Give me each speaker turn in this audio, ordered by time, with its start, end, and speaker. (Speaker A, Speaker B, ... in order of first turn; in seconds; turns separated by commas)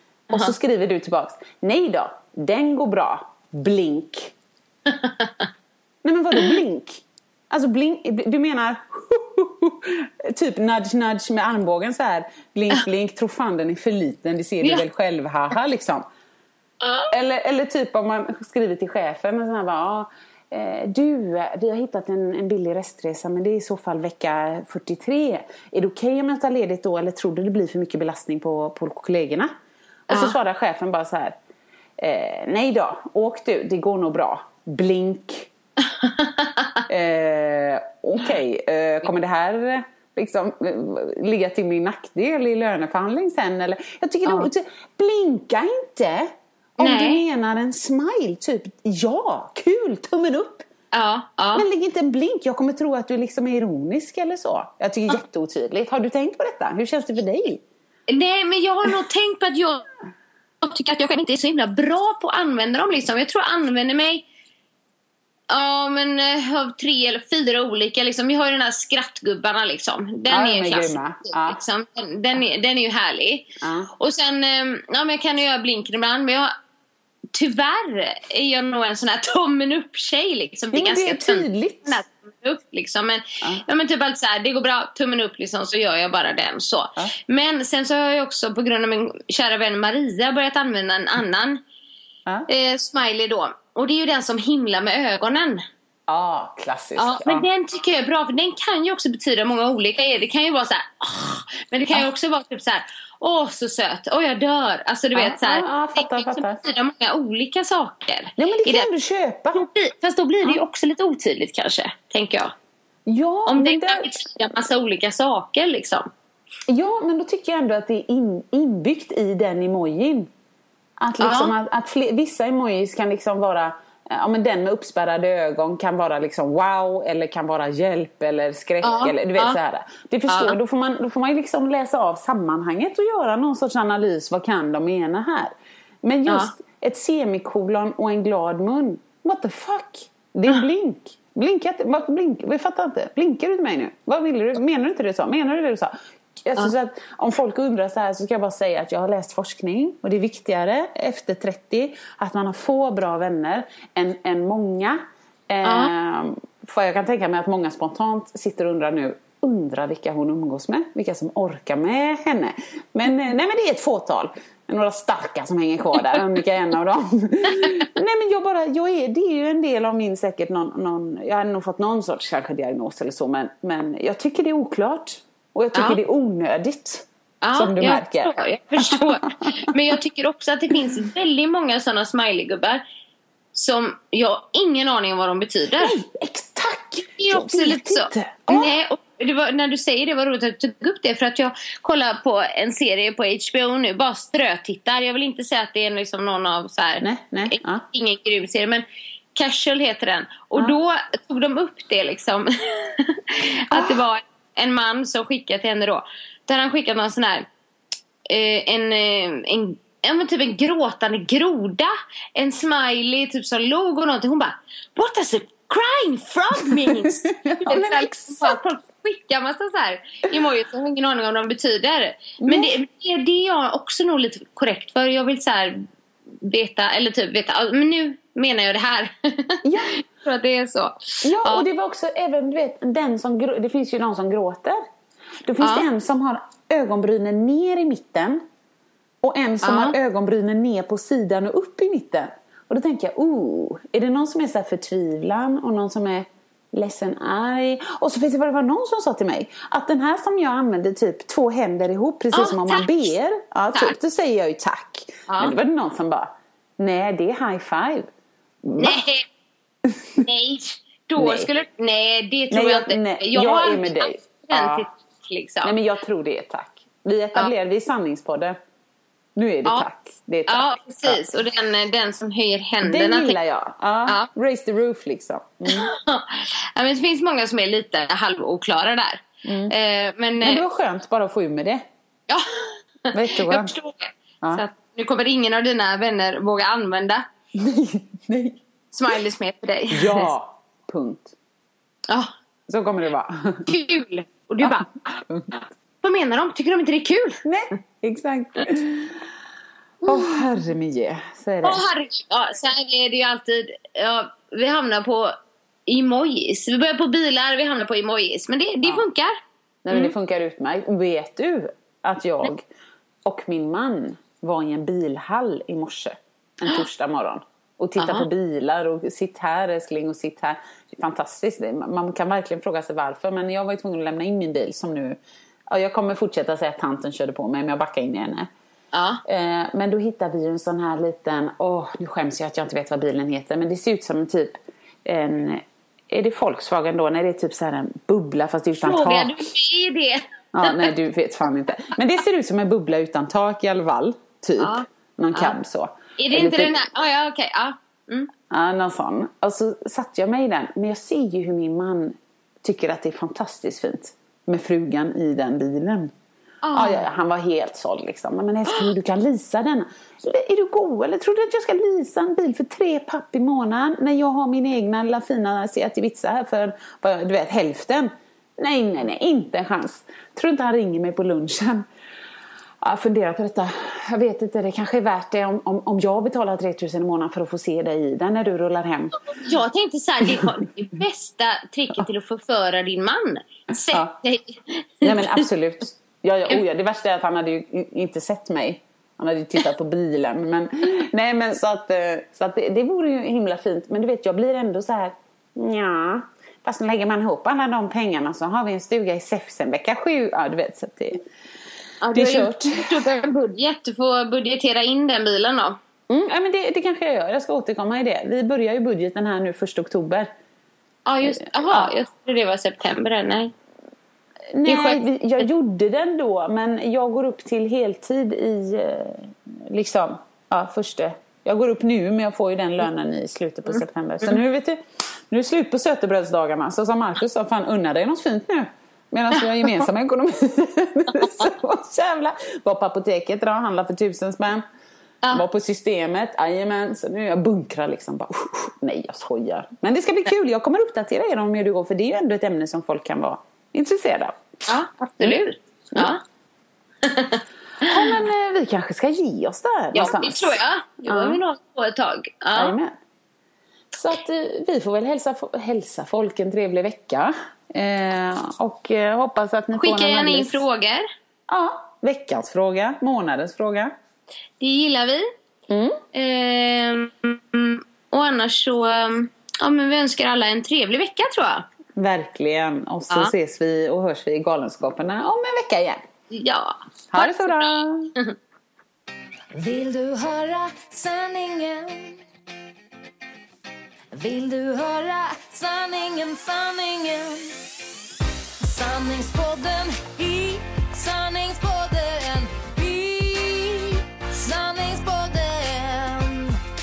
Speaker A: 0.3-4.3, Speaker B: 4.9-5.4, Speaker A: 6.0-16.1, Speaker B: 16.8-17.1, Speaker A: 17.1-29.5, Speaker A: 30.1-31.4, Speaker B: 30.1-30.4, Speaker A: 32.0-35.5, Speaker B: 36.0-36.8, Speaker A: 36.9-50.7, Speaker B: 46.8-47.2, Speaker B: 50.9-51.6, Speaker A: 51.5-57.6, Speaker B: 58.1-59.8, Speaker B: 60.6-64.2, Speaker B: 65.5-73.5, Speaker A: 70.3-71.6, Speaker A: 73.6-73.9, Speaker B: 74.0-76.5, Speaker B: 77.3-91.6, Speaker A: 80.7-82.0, Speaker B: 92.5-95.6, Speaker A: 96.1-97.5, Speaker B: 97.0-108.9, Speaker A: 105.1-106.6, Speaker A: 108.4-109.7, Speaker B: 109.5-112.5, Speaker A: 113.0-114.1, Speaker B: 113.5-116.1, Speaker A: 116.7-120.3, Speaker A: 121.0-179.5, Speaker B: 121.2-121.5, Speaker B: 128.8-129.6, Speaker B: 130.3-130.6, Speaker B: 155.6-155.9, Speaker B: 177.4-182.8, Speaker B: 183.5-185.9, Speaker A: 185.8-188.7, Speaker B: 187.2-207.4, Speaker A: 197.0-197.8, Speaker A: 203.7-204.0, Speaker B: 208.3-225.8, Speaker A: 216.7-218.6, Speaker A: 222.4-222.8, Speaker B: 226.4-231.6, Speaker A: 229.6-230.0, Speaker A: 231.2-234.8, Speaker A: 235.4-238.4, Speaker B: 235.6-235.8, Speaker A: 239.2-258.1, Speaker B: 239.6-239.9, Speaker B: 252.3-253.1, Speaker B: 255.3-255.5, Speaker A: 258.6-259.0, Speaker B: 258.8-259.2, Speaker A: 259.9-260.2, Speaker B: 260.2-265.7, Speaker A: 261.2-261.5, Speaker A: 262.5-264.9, Speaker A: 265.6-268.6, Speaker A: 269.4-271.2, Speaker B: 270.5-273.4, Speaker A: 272.8-275.9, Speaker B: 275.7-280.6, Speaker A: 279.4-279.7, Speaker A: 280.4-281.8, Speaker B: 282.3-287.2, Speaker A: 283.1-283.7, Speaker A: 287.5-288.6, Speaker B: 288.9-290.3, Speaker A: 289.9-291.3, Speaker A: 292.7-293.7, Speaker B: 293.7-294.9, Speaker A: 294.6-295.6, Speaker B: 295.6-297.4, Speaker A: 297.4-299.2, Speaker A: 300.0-301.8, Speaker B: 300.0-300.4, Speaker B: 301.6-305.3, Speaker B: 305.9-309.4, Speaker A: 309.8-312.6, Speaker A: 313.2-325.2, Speaker B: 318.0-318.3, Speaker A: 325.7-328.5, Speaker B: 328.9-329.2, Speaker A: 329.2-339.4, Speaker B: 338.8-340.9, Speaker A: 340.5-346.7, Speaker B: 344.6-345.5, Speaker B: 346.2-348.3, Speaker A: 348.5-356.1, Speaker B: 356.6-357.0, Speaker A: 356.7-371.9, Speaker A: 372.8-379.2, Speaker B: 379.3-385.4, Speaker A: 385.0-401.2, Speaker B: 402.0-405.8, Speaker A: 402.1-403.0, Speaker A: 406.1-410.3, Speaker B: 411.1-413.5, Speaker A: 411.2-411.9, Speaker A: 414.5-434.6, Speaker B: 414.6-415.0, Speaker B: 429.4-429.8, Speaker A: 435.3-444.4, Speaker B: 444.7-446.2, Speaker B: 447.0-448.1, Speaker A: 447.8-451.4, Speaker B: 449.9-452.8, Speaker A: 452.5-452.9, Speaker A: 453.9-460.6, Speaker B: 459.7-461.1, Speaker A: 461.5-463.9, Speaker B: 464.6-465.3, Speaker A: 465.7-466.0, Speaker B: 466.1-471.6, Speaker A: 472.0-476.0, Speaker B: 476.3-478.4, Speaker A: 477.1-478.1, Speaker C: 479.5-482.2, Speaker C: 484.1-487.6, Speaker C: 488.6-496.6